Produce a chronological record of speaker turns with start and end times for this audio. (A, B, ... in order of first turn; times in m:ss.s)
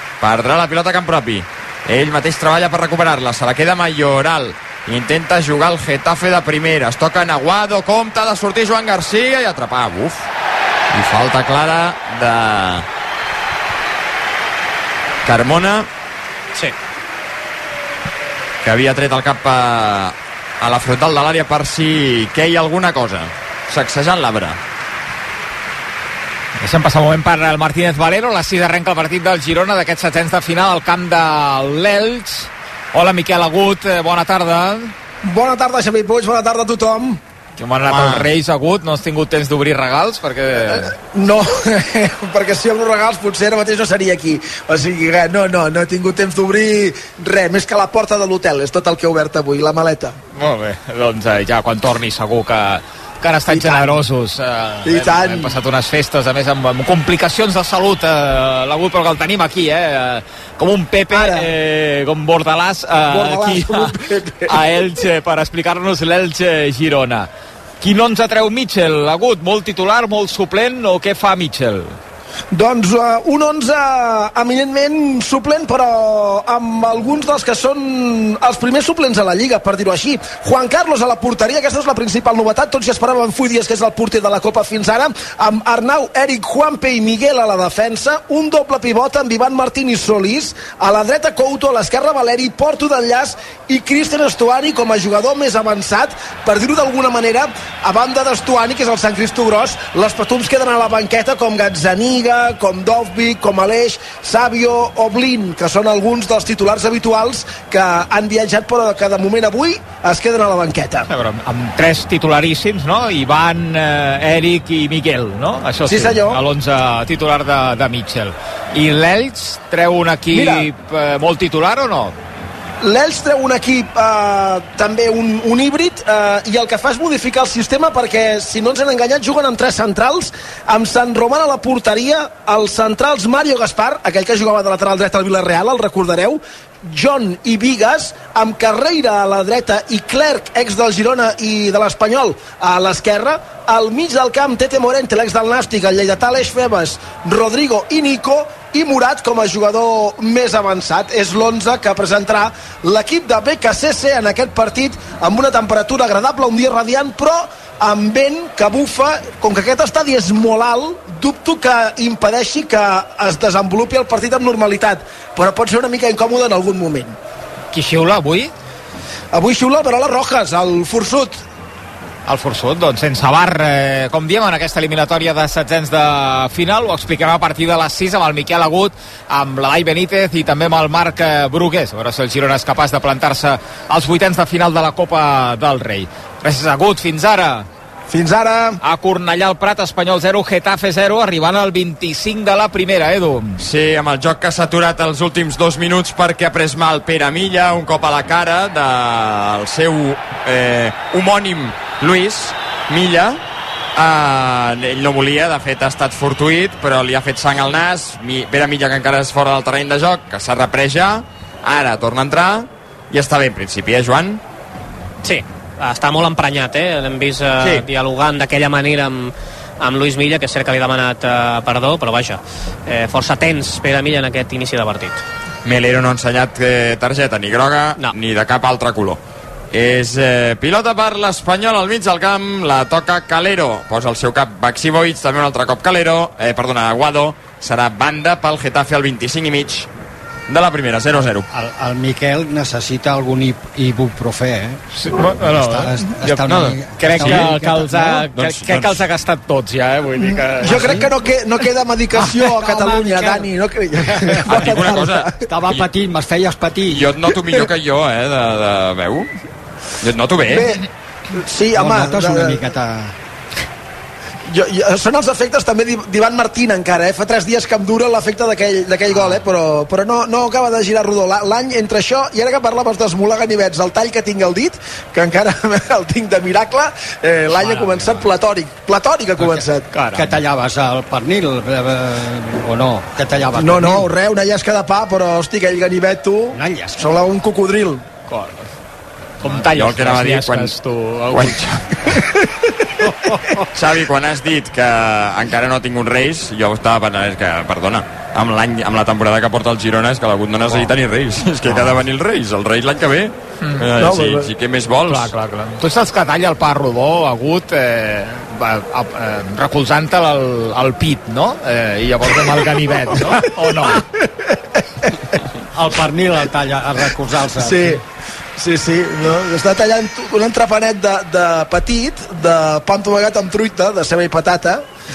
0:00.2-0:10.3 A
0:10.9-0:12.9 A
0:15.2-0:15.9 A
0:18.6-0:24.6 A
0:26.6-0:34.9 B
0:35.2-0:37.2 C
0:37.6-0:40.9 B
0:37.9-0:38.3 A
0:40.6-0:50.1 C
0:50.3-1:07.3 B
0:53.5-0:54.0 C
0:54.8-0:55.6 C
1:01.1-1:01.5 C
1:03.0-1:04.6 C
1:07.8-1:12.0 B
1:12.5-1:51.1 C
1:51.1-2:02.1 B
1:55.9-1:56.4 C
2:00.3-2:00.7 C
2:02.8-2:47.1 C
2:47.7-2:48.5 B
2:49.3-2:51.4 C
2:52.3-3:07.7 B
3:08.1-3:08.8 C
3:08.8-3:13.6 B
3:13.6-3:23.4 A
3:24.0-3:34.4 A
3:35.2-3:45.2 D
3:45.6-3:59.9 A
4:00.5-4:01.4 A
4:01.5-4:04.8 E
4:04.9-4:11.1 B
4:05.4-4:08.3 E
4:07.2-4:07.5 A
4:08.3-4:09.0 A
4:10.6-4:11.1 E
4:10.6-4:15.4 C
4:12.4-4:17.3 E
4:14.4-4:15.8 A
4:16.9-4:19.3 A
4:20.0-4:20.7 A
4:20.4-4:22.6 C
4:21.7-4:23.2 E
4:24.4-4:39.9 C
4:37.5-4:38.3 E
4:39.4-4:44.1 E
4:39.9-4:40.4 B
4:43.6-4:48.0 C
4:46.5-4:47.2 E
4:48.3-4:48.7 B
4:49.4-4:51.6 B
4:49.4-4:49.7 E
4:49.7-4:50.7 A
4:51.3-4:52.1 A
4:53.0-4:53.6 E
4:53.7-5:05.3 A
5:01.6-5:02.0 B
5:03.6-5:03.9 B
5:04.0-5:04.5 C
5:05.1-5:14.0 B
5:12.3-5:14.0 C
5:15.7-5:18.0 E
5:17.6-5:18.0 C
5:18.6-5:24.8 C